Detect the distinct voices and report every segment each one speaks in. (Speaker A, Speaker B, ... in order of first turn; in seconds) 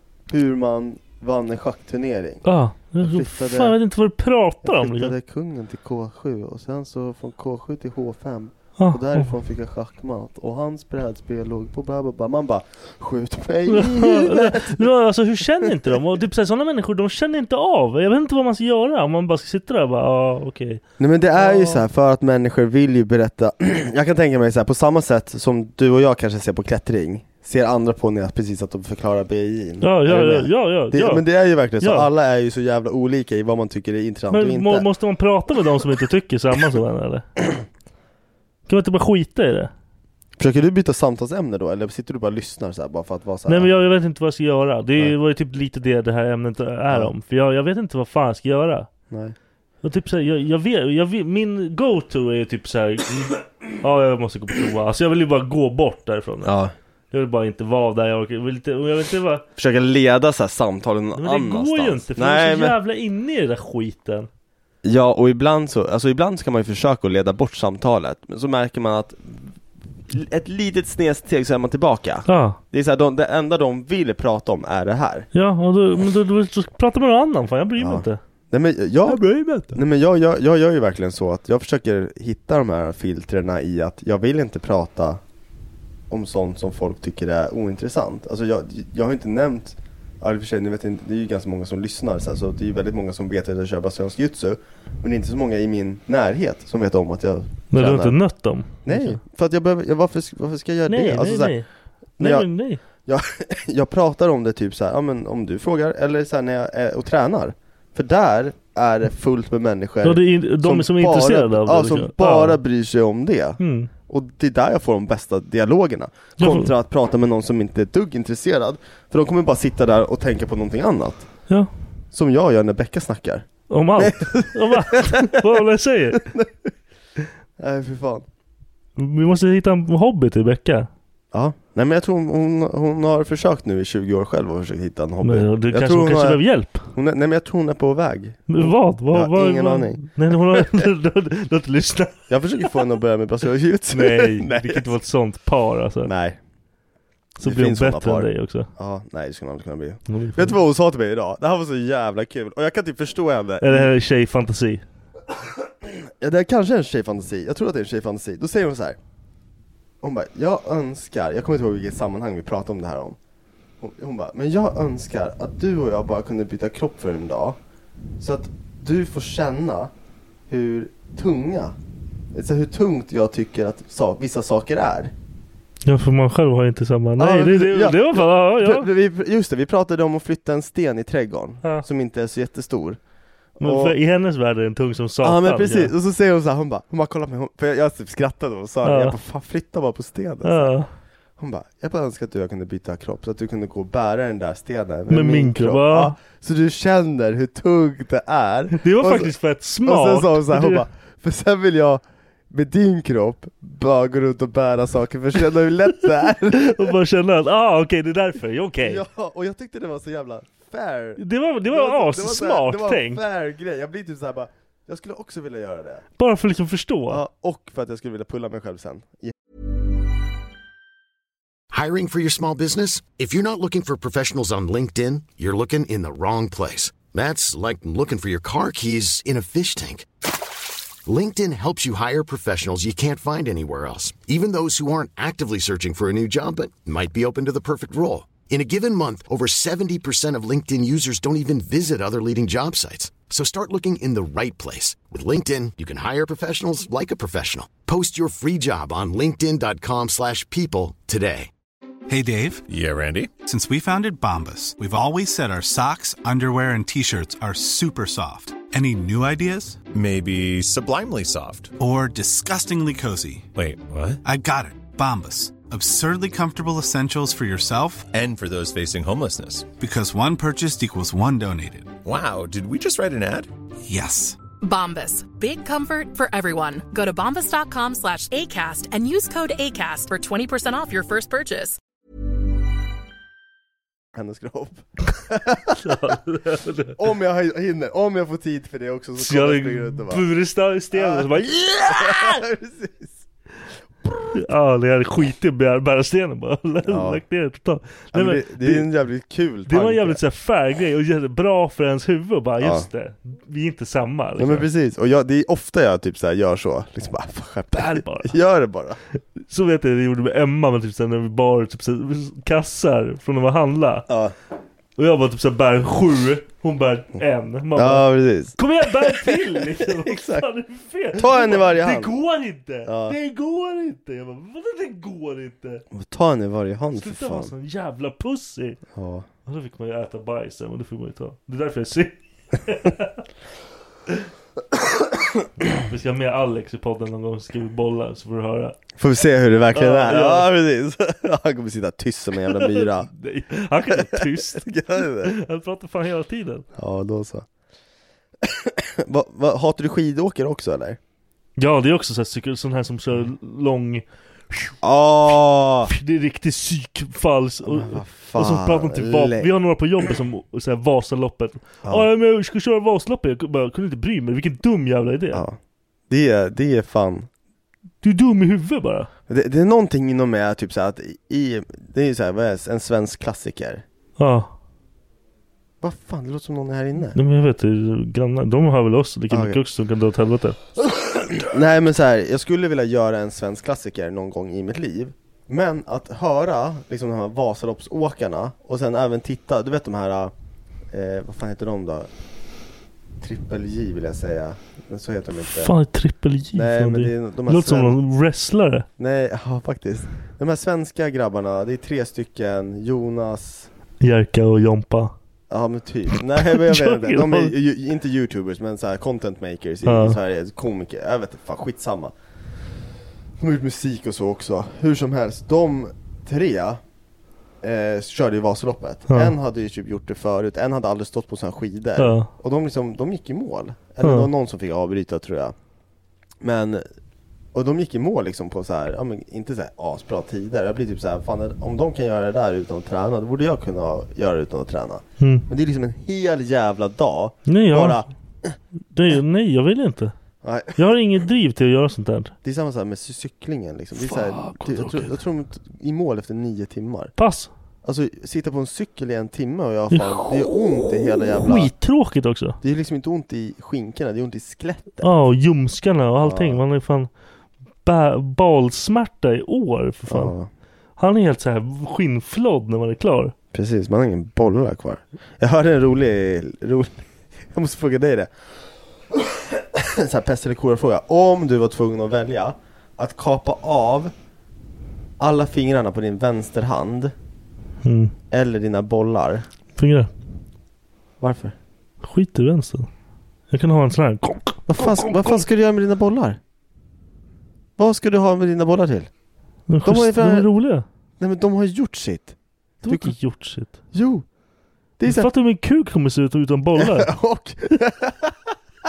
Speaker A: 0.3-2.5, 3.0-3.8, 4.6-14.9, 15.6-15.9, 21.0-34.9, 40.4-43.7, 49.1-49.4, 56.4-56.7, 59.6-62.8, 64.8-69.5, 70.1-75.3, 77.8-85.2, 86.1-98.2, 98.8-101.6, 102.2-102.5, 103.0-121.3, 122.1-125.6, 126.1-126.7, 127.6-128.3, 131.3-140.8, 142.3-144.9, 146.1-146.4, 147.4-153.9, 155.8-159.0, 160.0-163.2, 163.8-167.6, 168.2-169.9, 170.5-171.8, 172.3-175.1, 177.2-183.0, 183.6-184.0, 185.2-190.8, 191.4-199.3, 199.8-206.9, 208.8-216.0, 217.1-219.3, 284.1-286.0, 287.0-290.2, 290.9-293.2, 294.1-294.3, 296.9-297.2, 298.1-300.2, 302.6-302.9, 304.4-309.0, 314.1-314.3, 317.8-320.5, 321.1-322.1, 322.9-323.2, 325.9-327.5, 328.9-329.3, 339.0-343.1, 343.9-345.3, 346.8-347.5, 348.4-351.0, 354.8-355.9, 357.6-359.5, 365.3-365.6, 366.1-367.3, 369.3-373.8, 375.8-377.2, 379.3-379.6, 381.0-390.3, 390.9-392.1, 393.2-395.7, 396.5-398.0, 399.0-403.7, 405.5-412.1, 413.4-416.8, 417.6-425.6, 426.4-426.9, 427.5-438.6, 440.4-440.8, 442.4-447.1, 447.8-451.7, 452.6-455.1, 456.2-456.6, 460.1-460.5, 463.5-468.3, 469.1-474.1, 475.2-477.1, 478.3-479.5, 481.2-481.6, 484.7-486.4, 487.8-489.1, 489.8-490.5, 491.2-493.2, 493.9-494.3, 495.0-495.3, 496.8-498.6
Speaker B: 2.5-5.1, 8.8-9.3, 13.7-20.8, 21.4-21.8, 29.8-31.2, 31.8-32.1, 34.3-37.3, 38.7-39.7, 43.5-48.9, 49.8-56.5, 57.1-59.4, 61.2-64.3, 72.3-72.6, 75.3-78.2, 79.1-79.8, 97.7-99.2, 100.9-101.7, 102.2-102.8, 110.0-112.6, 113.6-113.9, 116.4-116.7, 123.7-126.3, 129.0-130.9, 135.2-136.9, 138.5-142.2, 143.9-146.1, 147.4-148.7, 150.1-150.6, 153.6-154.8, 175.9-178.9, 183.6-185.9, 188.8-189.2, 190.4-190.9, 195.1-196.2, 198.7-200.8, 206.5-209.0, 211.2-213.2, 216.2-217.2, 285.8-287.0, 289.2-292.4, 294.3-298.9, 299.7-304.7, 307.7-308.4, 309.4-314.1, 315.0-325.9, 327.0-328.8, 329.5-333.2, 335.6-338.8, 339.7-340.5, 342.6-344.7, 345.2-346.7, 351.6-354.8, 355.9-365.4, 368.0-369.1, 374.2-374.5, 377.1-380.6, 395.4-398.9, 404.0-405.1, 406.4-407.5, 409.9-410.2, 419.1-419.3, 422.0-422.3, 424.0-424.3, 435.2-435.5, 437.5-438.1, 438.9-440.1, 440.8-442.3, 444.0-445.1, 447.2-447.5, 449.9-450.5, 451.4-452.6, 455.0-457.1, 457.8-460.3, 461.0-463.3, 477.8-478.1, 479.8-480.1, 482.0-482.9, 483.5-485.4, 489.7-490.9, 492.8-493.8, 495.1-497.1
Speaker C: 221.7-230.1, 231.1-251.5
Speaker D: 252.1-252.6, 253.4-259.8, 261.8-263.5, 264.2-268.1, 269.8-271.9, 273.9-274.4
Speaker E: 252.7-253.3, 259.9-261.7, 263.6-264.2, 268.1-269.7, 272.1-273.5
Speaker F: 274.6-281.8